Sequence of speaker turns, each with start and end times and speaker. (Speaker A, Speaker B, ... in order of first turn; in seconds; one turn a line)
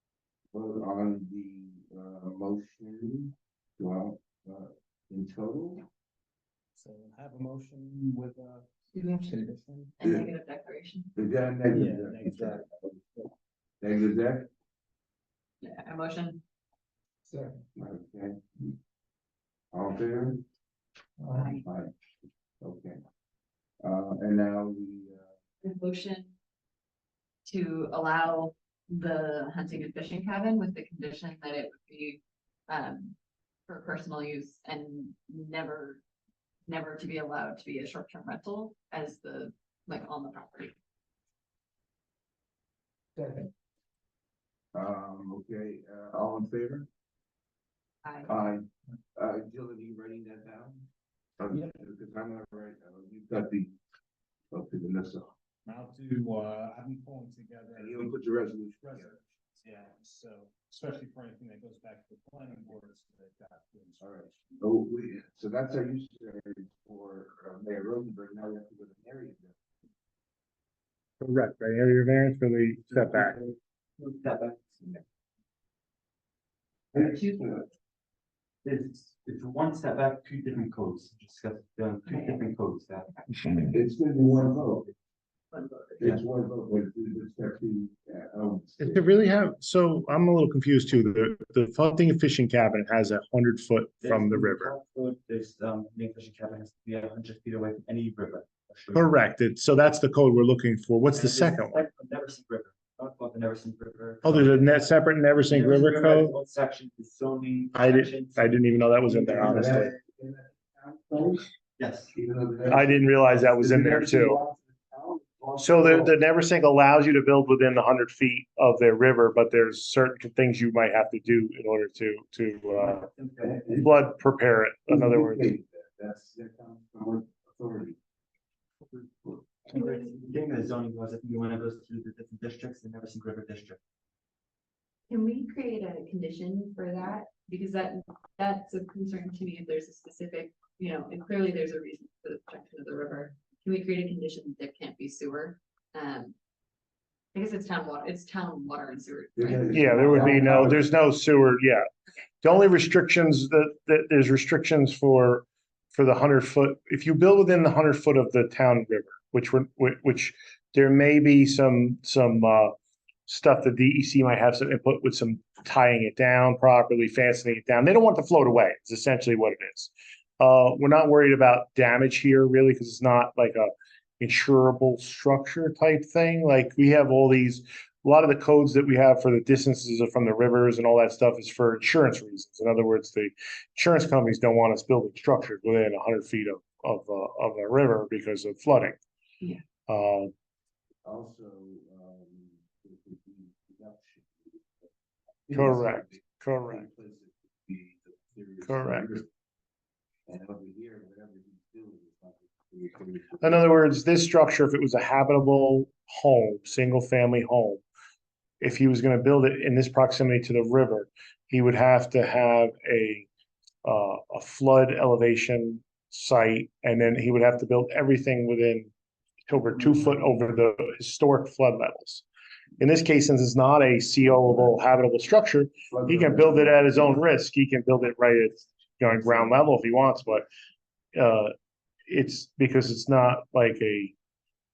Speaker A: 0.5-5.8
Speaker B: 6.7-9.9
Speaker C: 8.9-11.2
Speaker A: 11.2-12.8
Speaker B: 11.7-12.7
Speaker A: 13.8-14.5
Speaker C: 15.6-16.4
Speaker B: 17.3-17.6
Speaker A: 17.8-18.7
Speaker A: 19.7-20.4
Speaker C: 21.3-21.7
Speaker A: 21.6-21.9
Speaker A: 22.6-23.0
Speaker A: 23.8-25.3
Speaker C: 25.6-26.3
Speaker C: 27.4-33.1
Speaker C: 33.7-36.0
Speaker C: 36.7-40.7
Speaker B: 43.2-43.5
Speaker A: 44.7-46.9
Speaker C: 48.0-48.4
Speaker A: 48.3-50.9
Speaker A: 51.4-53.7
Speaker B: 51.5-51.8
Speaker A: 54.5-55.3
Speaker B: 55.6-58.2
Speaker A: 57.8-59.2
Speaker B: 58.8-64.1
Speaker A: 64.0-69.6
Speaker D: 71.2-73.4
Speaker E: 72.9-75.0
Speaker A: 76.9-77.7
Speaker E: 78.6-83.7
Speaker C: 82.0-82.4
Speaker A: 83.7-84.9
Speaker C: 85.5-86.1
Speaker A: 86.0-89.0
Speaker D: 88.8-94.7
Speaker E: 94.0-99.1
Speaker D: 98.9-101.8
Speaker E: 101.1-109.8
Speaker D: 104.2-106.3
Speaker D: 107.7-109.9
Speaker A: 109.4-111.5
Speaker E: 111.8-112.1
Speaker A: 112.1-116.1
Speaker D: 112.7-114.4
Speaker D: 115.6-123.1
Speaker E: 122.7-123.7
Speaker A: 123.4-123.9
Speaker D: 123.8-125.5
Speaker A: 124.9-128.0
Speaker E: 129.7-133.8
Speaker C: 129.7-130.2
Speaker C: 135.1-146.3
Speaker C: 147.3-150.6
Speaker A: 149.3-150.8
Speaker D: 149.7-151.8
Speaker D: 152.4-162.7
Speaker D: 163.3-189.0
Speaker D: 189.9-190.3
Speaker A: 191.0-194.9
Speaker A: 195.4-199.3
Speaker D: 195.5-196.9
Speaker D: 198.6-199.2
Speaker A: 200.3-203.7
Speaker D: 203.4-207.8
Speaker D: 208.6-213.3
Speaker D: 213.8-218.9
Speaker D: 219.5-222.2
Speaker D: 222.8-230.4
Speaker A: 225.9-227.2
Speaker D: 231.1-231.5
Speaker D: 232.1-234.1